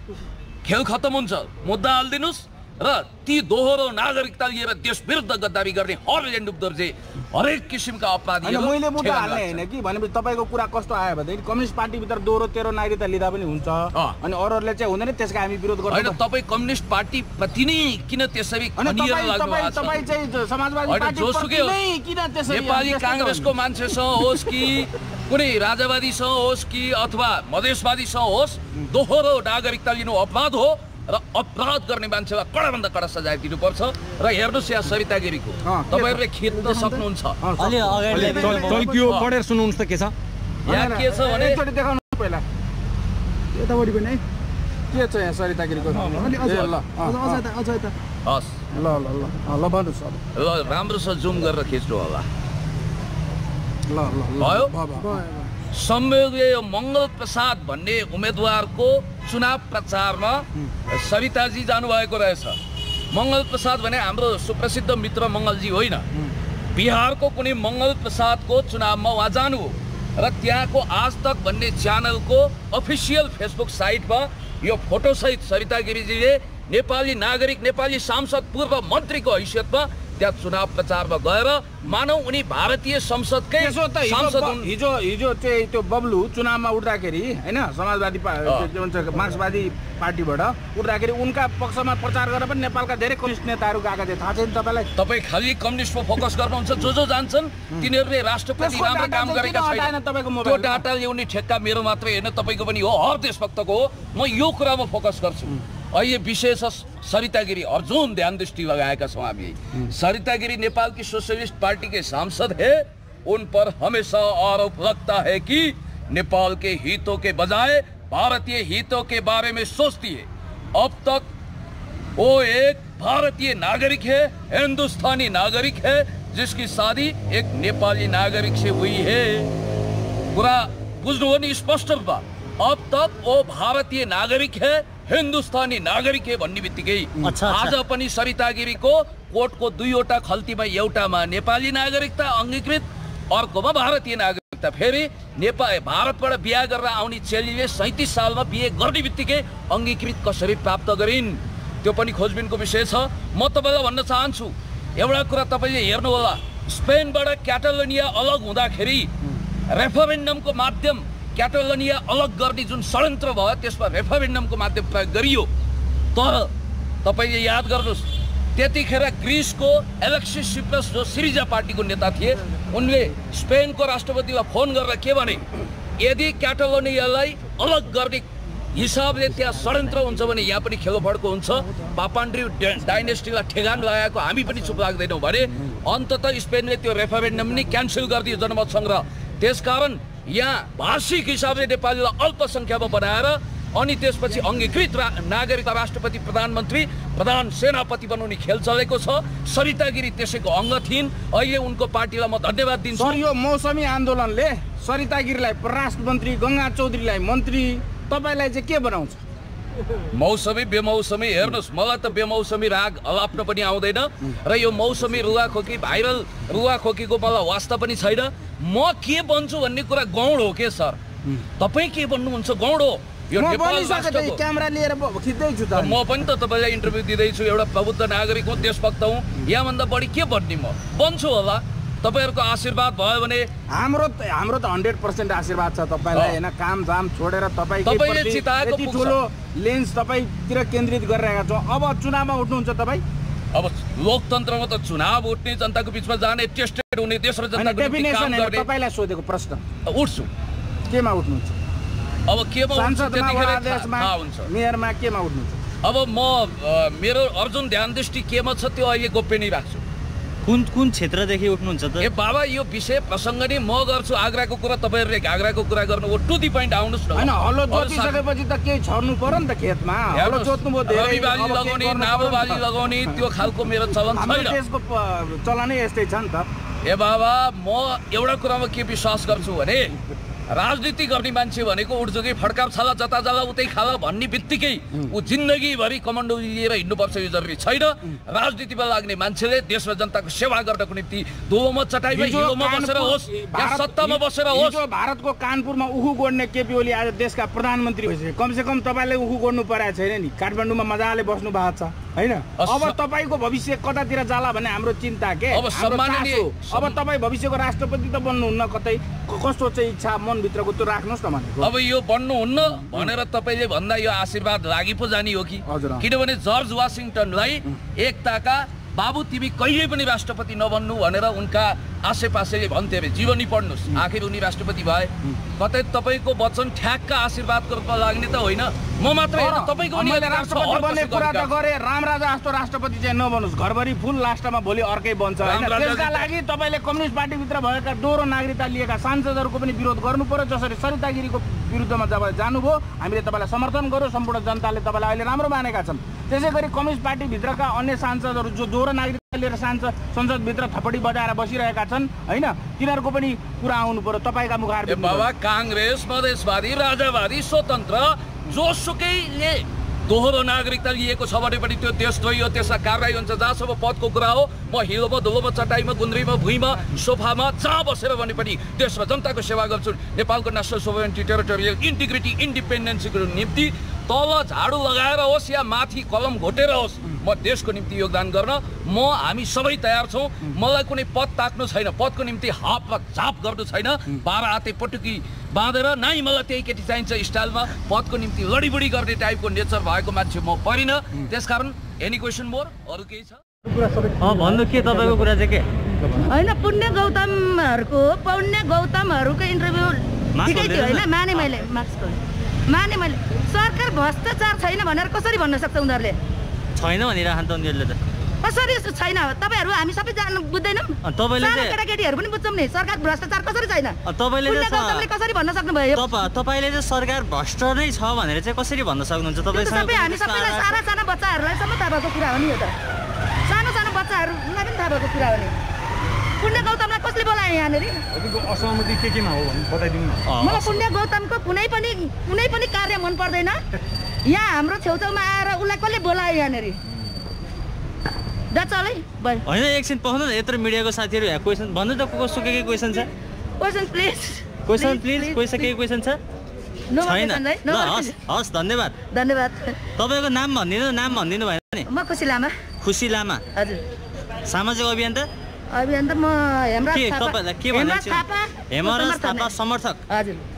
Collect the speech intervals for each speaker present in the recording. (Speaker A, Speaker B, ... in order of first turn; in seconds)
Speaker A: 0.6-9.6, 15.9-20.0, 20.9-21.8, 22.5-37.5, 38.2-39.3, 40.7-41.6, 46.4-46.8, 48.2-48.5, 50.4-52.2, 54.4-54.7, 55.7-62.6, 63.1-66.1, 66.7-84.7, 95.0-121.2, 122.2-129.5, 130.3-159.1, 159.7-165.5, 166.1-166.5, 167.0-175.4, 176.0-203.2, 210.1-221.0, 221.6-224.4, 225.7-233.5, 236.1-236.4, 237.8-239.2, 243.5-248.7, 249.9-250.3, 252.3-254.5, 255.8-259.8, 262.0-268.2, 270.1-274.6, 276.9-280.0, 280.5-294.8, 302.6-303.0, 305.5-307.0, 311.6-331.5, 335.4-336.3, 354.9-393.4
Speaker B: 8.4-16.2, 18.8-23.5, 35.6-39.0, 40.7-42.4, 44.9-47.4, 48.7-50.2, 53.9-55.3, 83.6-94.9, 98.6-100.8, 202.9-209.2, 223.3-226.0, 233.7-243.0, 247.5-249.6, 250.9-251.6, 252.7-255.6, 267.1-273.2, 274.1-276.5, 292.1-311.7, 315.7-316.1, 329.3-355.3
Speaker C: 37.6-38.8, 137.2-137.8, 260.4-262.0, 394.2-395.6, 400.4-401.2, 406.8-408.0, 411.0-411.8, 414.0-415.1, 415.9-420.9, 430.2-430.9, 439.5-443.1, 444.7-446.2, 447.0-449.0, 450.0-451.9, 452.8-453.4, 454.5-455.3, 456.9-460.0
Speaker D: 38.1-40.1, 428.1-430.2
Speaker E: 43.6-44.2, 46.1-47.9
Speaker F: 396.3-406.2, 408.4-416.1, 419.5-422.7, 423.4-425.5, 426.4-428.0, 430.4-433.6, 434.2-436.8, 438.5-439.4, 443.6-445.7, 446.9-448.1, 449.1-449.8, 451.9-452.5, 453.5-453.8, 455.7-459.6, 460.1-460.4